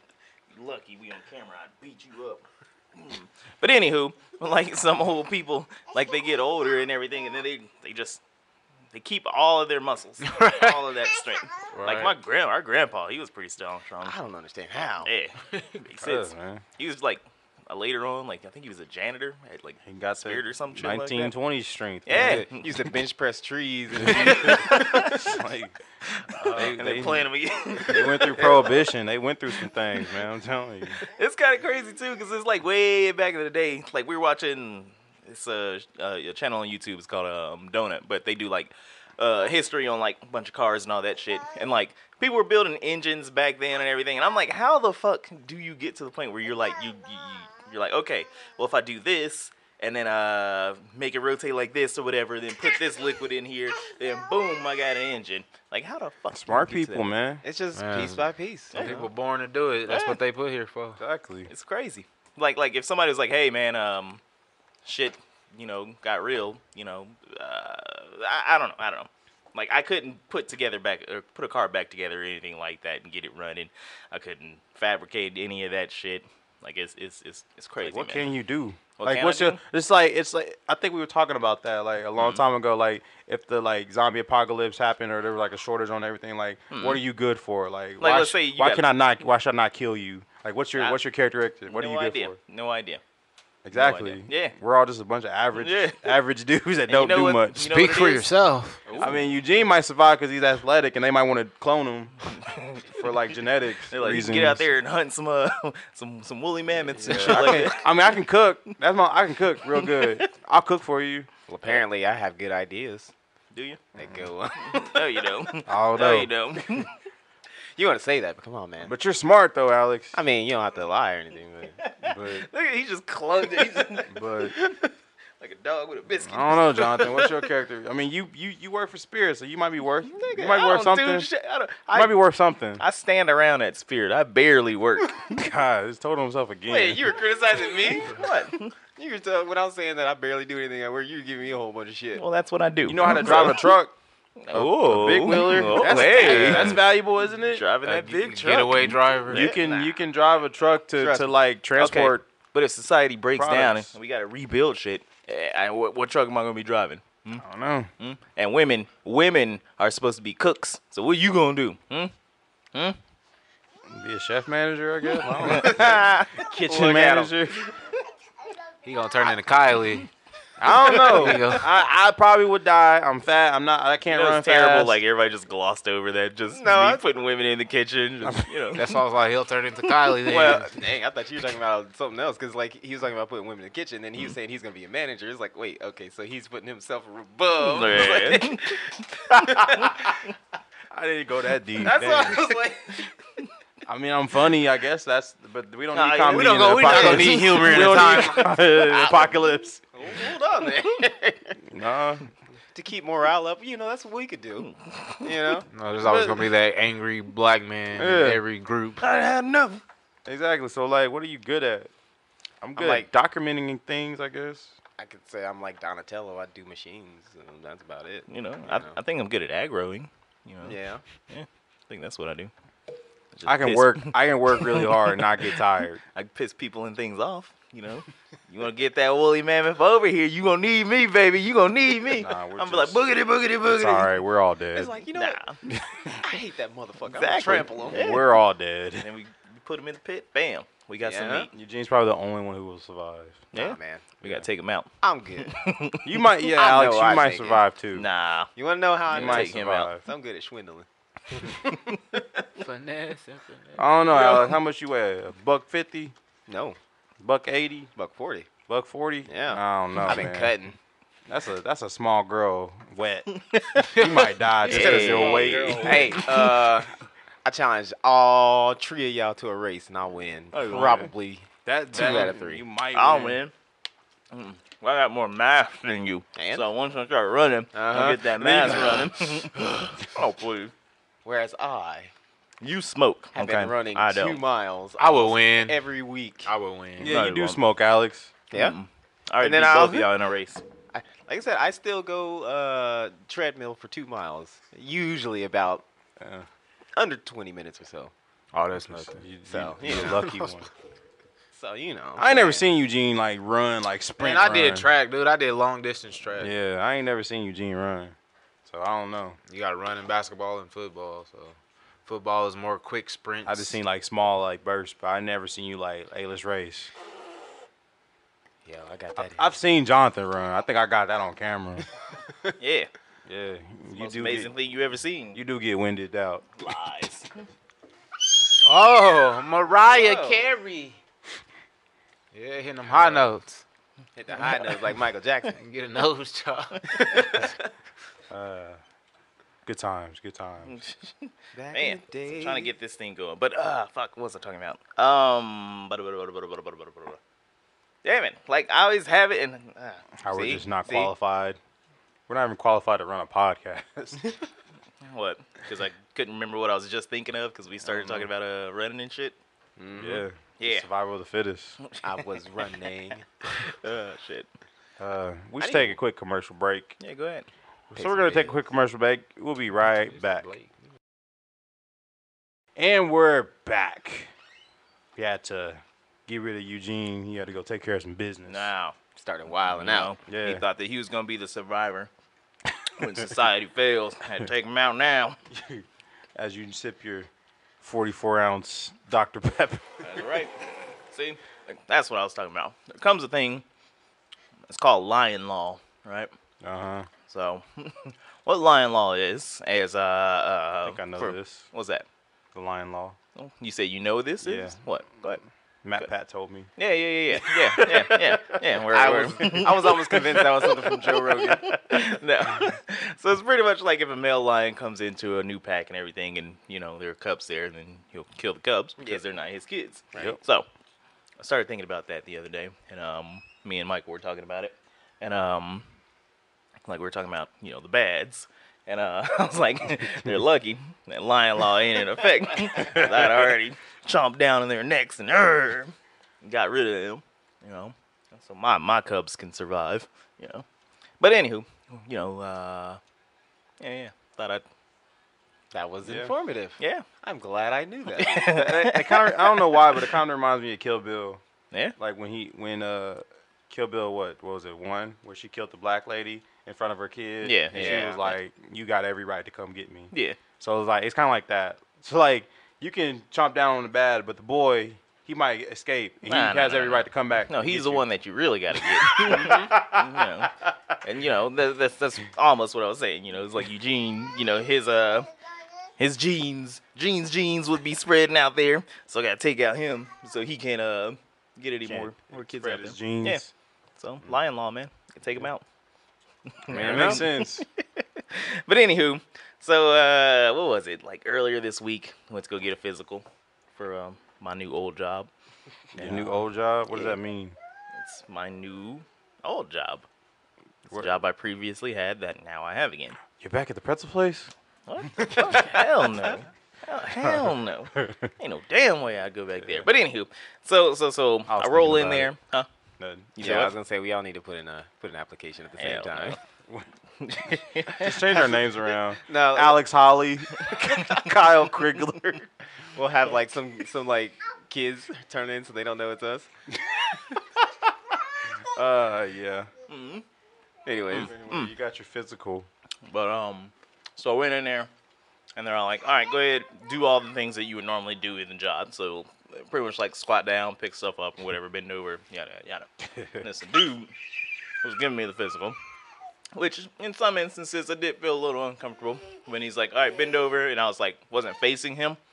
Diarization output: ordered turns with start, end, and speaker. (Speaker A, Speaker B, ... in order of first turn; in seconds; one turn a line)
Speaker A: 0.5-8.2
Speaker A: 8.9-14.2
Speaker B: 10.3-10.7
Speaker B: 11.7-12.1
Speaker C: 14.0-15.1
Speaker A: 15.0-21.3
Speaker D: 16.0-16.6
Speaker D: 19.8-22.4
Speaker A: 22.1-22.6
Speaker C: 22.1-24.6
Speaker D: 23.9-25.8
Speaker A: 24.2-25.4
Speaker A: 26.1-28.9
Speaker D: 26.4-27.3
Speaker D: 27.8-31.0
Speaker A: 31.0-57.0
Speaker D: 56.3-57.4
Speaker C: 57.4-59.0
Speaker B: 57.7-61.0
Speaker A: 58.7-59.1
Speaker A: 59.9-60.2
Speaker D: 61.0-61.5
Speaker A: 61.5-64.2
Speaker A: 64.8-78.2
Speaker D: 77.8-92.4
Speaker A: 79.0-79.6
Speaker A: 82.2-82.4
Speaker A: 86.7-87.0
Speaker A: 88.0-88.9
Speaker A: 91.7-93.0
Speaker D: 93.6-97.7
Speaker A: 93.7-94.5
Speaker A: 95.5-96.1
Speaker A: 96.9-98.3
Speaker B: 97.6-99.1
Speaker A: 98.9-99.2
Speaker D: 99.0-102.3
Speaker A: 102.4-103.1
Speaker D: 102.9-104.7
Speaker A: 103.9-108.0
Speaker D: 107.0-111.3
Speaker B: 107.1-107.4
Speaker A: 109.7-110.2
Speaker C: 111.5-113.1
Speaker A: 113.5-113.8
Speaker C: 114.0-115.0
Speaker D: 114.0-114.3
Speaker A: 114.6-116.9
Speaker D: 115.7-116.8
Speaker C: 117.8-118.9
Speaker D: 118.8-120.2
Speaker C: 120.1-121.8
Speaker A: 121.8-124.1
Speaker D: 122.0-122.5
Speaker D: 124.1-124.5
Speaker C: 124.5-124.8
Speaker A: 125.4-127.2
Speaker D: 126.2-131.3
Speaker A: 130.2-132.2
Speaker D: 131.9-132.8
Speaker A: 132.8-135.3
Speaker D: 135.3-137.2
Speaker C: 136.7-138.2
Speaker A: 138.0-138.7
Speaker C: 138.9-142.2
Speaker A: 142.2-143.7
Speaker D: 142.8-143.9
Speaker A: 144.4-149.7
Speaker D: 144.5-147.6
Speaker C: 145.7-146.8
Speaker B: 147.8-149.5
Speaker D: 149.3-152.2
Speaker C: 151.0-151.3
Speaker A: 151.8-157.4
Speaker D: 153.3-153.9
Speaker D: 157.4-157.9
Speaker A: 158.0-162.1
Speaker D: 163.9-167.7
Speaker C: 165.3-167.3
Speaker A: 165.4-166.2
Speaker B: 168.8-170.1
Speaker D: 170.6-175.0
Speaker C: 170.7-171.3
Speaker B: 170.8-171.7
Speaker A: 174.1-179.0
Speaker C: 176.5-177.0
Speaker D: 178.2-178.5
Speaker B: 178.7-180.7
Speaker C: 180.2-190.2
Speaker A: 187.6-190.1
Speaker D: 190.9-192.4
Speaker C: 191.8-193.1
Speaker D: 193.8-199.8
Speaker A: 195.9-198.1
Speaker C: 196.6-197.9
Speaker B: 196.7-198.5
Speaker C: 199.9-201.6
Speaker D: 201.6-202.3
Speaker C: 202.7-204.7
Speaker A: 204.6-205.2
Speaker C: 205.2-205.7
Speaker B: 205.7-209.0
Speaker D: 206.0-206.4
Speaker D: 207.9-208.4
Speaker A: 209.0-209.8
Speaker D: 210.2-211.9
Speaker D: 212.6-214.8
Speaker C: 212.8-213.1
Speaker C: 215.0-219.0
Speaker A: 218.3-220.7
Speaker C: 220.6-221.0
Speaker A: 221.3-222.5
Speaker A: 223.3-225.2
Speaker D: 223.4-226.0
Speaker A: 226.1-234.1
Speaker D: 232.1-233.0
Speaker D: 233.6-234.9
Speaker C: 234.7-235.4
Speaker A: 235.1-235.6
Speaker D: 235.7-236.3
Speaker C: 236.1-238.0
Speaker A: 237.1-238.3
Speaker D: 237.9-239.1
Speaker A: 239.0-241.5
Speaker C: 241.0-241.5
Speaker D: 241.5-243.5
Speaker A: 243.5-246.1
Speaker C: 243.5-244.1
Speaker C: 245.0-245.5
Speaker D: 246.0-248.1
Speaker C: 246.5-247.6
Speaker A: 247.9-248.5
Speaker C: 248.6-250.8
Speaker A: 249.1-249.9
Speaker D: 249.1-250.0
Speaker B: 252.6-253.9
Speaker D: 253.8-256.1
Speaker A: 254.1-254.4
Speaker C: 256.5-256.8
Speaker D: 257.2-257.9
Speaker C: 257.9-258.5
Speaker D: 258.7-260.5
Speaker C: 259.3-260.8
Speaker D: 261.3-263.3
Speaker A: 263.3-264.0
Speaker D: 263.8-266.4
Speaker B: 263.9-266.2
Speaker A: 264.6-266.4
Speaker C: 264.7-266.9
Speaker C: 267.4-272.6
Speaker A: 270.5-271.1
Speaker D: 271.6-273.4
Speaker A: 272.9-273.5
Speaker A: 274.3-280.7
Speaker C: 276.4-276.6
Speaker C: 277.7-279.0
Speaker D: 278.4-279.5
Speaker C: 281.2-282.1
Speaker A: 282.6-284.4
Speaker C: 283.3-286.5
Speaker B: 285.0-285.8
Speaker B: 286.4-287.1
Speaker D: 287.0-288.3
Speaker A: 287.0-287.6
Speaker A: 288.5-290.6
Speaker C: 289.4-290.1
Speaker C: 290.9-295.8
Speaker D: 296.2-296.4
Speaker C: 296.9-298.1
Speaker B: 298.5-299.2
Speaker D: 298.7-300.7
Speaker C: 299.5-300.3
Speaker B: 299.8-300.5
Speaker C: 301.5-302.6
Speaker D: 302.2-304.9
Speaker B: 304.2-306.5
Speaker D: 306.4-309.4
Speaker B: 309.5-313.8
Speaker D: 313.4-316.9
Speaker C: 318.6-319.5
Speaker D: 319.2-321.9
Speaker A: 322.6-322.9
Speaker D: 323.2-324.5
Speaker A: 324.0-325.4
Speaker D: 325.3-326.4
Speaker A: 326.6-327.4
Speaker B: 328.6-331.0
Speaker C: 329.9-330.5
Speaker B: 332.3-333.6
Speaker C: 334.1-335.6
Speaker B: 335.6-337.6
Speaker D: 338.3-338.8
Speaker D: 339.6-340.7
Speaker A: 340.6-347.2
Speaker C: 341.5-342.7
Speaker A: 348.0-350.0
Speaker D: 350.2-351.6
Speaker C: 350.3-351.1
Speaker D: 352.3-354.4
Speaker A: 355.0-359.4
Speaker D: 357.8-358.3
Speaker C: 359.8-360.2
Speaker D: 360.0-361.8
Speaker A: 360.6-360.9
Speaker A: 361.8-362.2
Speaker C: 362.0-363.2
Speaker A: 363.6-364.5
Speaker D: 365.0-366.9
Speaker C: 365.6-365.9
Speaker A: 367.0-367.5
Speaker C: 367.9-368.5
Speaker D: 367.9-370.5
Speaker B: 370.0-370.7
Speaker D: 372.8-374.3
Speaker D: 375.1-378.7
Speaker A: 378.5-378.9
Speaker C: 379.1-380.1
Speaker A: 379.6-382.1
Speaker D: 380.3-380.6
Speaker A: 382.9-385.4
Speaker D: 385.5-385.8
Speaker D: 386.4-387.3
Speaker D: 387.8-390.2
Speaker A: 390.0-390.5
Speaker A: 391.1-393.6
Speaker A: 394.7-396.3
Speaker D: 396.6-397.1
Speaker A: 397.3-402.0
Speaker D: 400.8-401.7
Speaker D: 402.5-403.2
Speaker A: 403.4-405.4
Speaker D: 404.4-404.8
Speaker D: 405.8-406.7
Speaker A: 406.8-420.7
Speaker D: 407.4-408.6
Speaker C: 408.9-411.7
Speaker A: 421.4-425.8
Speaker A: 426.9-440.6
Speaker D: 432.8-433.3
Speaker A: 441.2-443.0
Speaker A: 443.8-444.6
Speaker C: 445.7-448.5
Speaker D: 446.0-446.3
Speaker A: 446.8-447.1
Speaker A: 448.2-450.1
Speaker D: 448.4-451.4
Speaker D: 452.0-468.1
Speaker A: 457.4-458.4
Speaker C: 457.7-458.2
Speaker A: 460.1-460.4
Speaker A: 466.2-475.3
Speaker D: 468.8-469.8
Speaker C: 469.3-469.7
Speaker A: 476.0-483.4
Speaker D: 481.8-483.5
Speaker A: 484.0-485.6
Speaker A: 486.5-495.3
Speaker D: 486.7-487.6
Speaker A: 495.9-496.4
Speaker D: 495.9-497.5
Speaker A: 497.9-500.0
Speaker A: 500.9-503.2
Speaker D: 503.4-504.5
Speaker A: 504.9-512.7
Speaker D: 505.2-505.7
Speaker D: 507.2-508.3
Speaker D: 509.6-509.9
Speaker D: 511.5-512.3
Speaker D: 513.0-513.7
Speaker A: 513.4-513.7
Speaker C: 513.4-516.4
Speaker A: 515.8-516.4
Speaker A: 517.2-518.1
Speaker D: 518.0-522.5
Speaker C: 519.2-519.8
Speaker A: 520.7-521.2
Speaker C: 522.9-526.5
Speaker D: 526.9-527.4
Speaker D: 528.6-529.7
Speaker A: 529.9-530.2
Speaker C: 530.9-531.3
Speaker A: 531.1-531.7
Speaker D: 531.1-532.7
Speaker A: 533.0-534.9
Speaker A: 535.6-544.1
Speaker A: 544.8-545.8
Speaker A: 546.5-552.2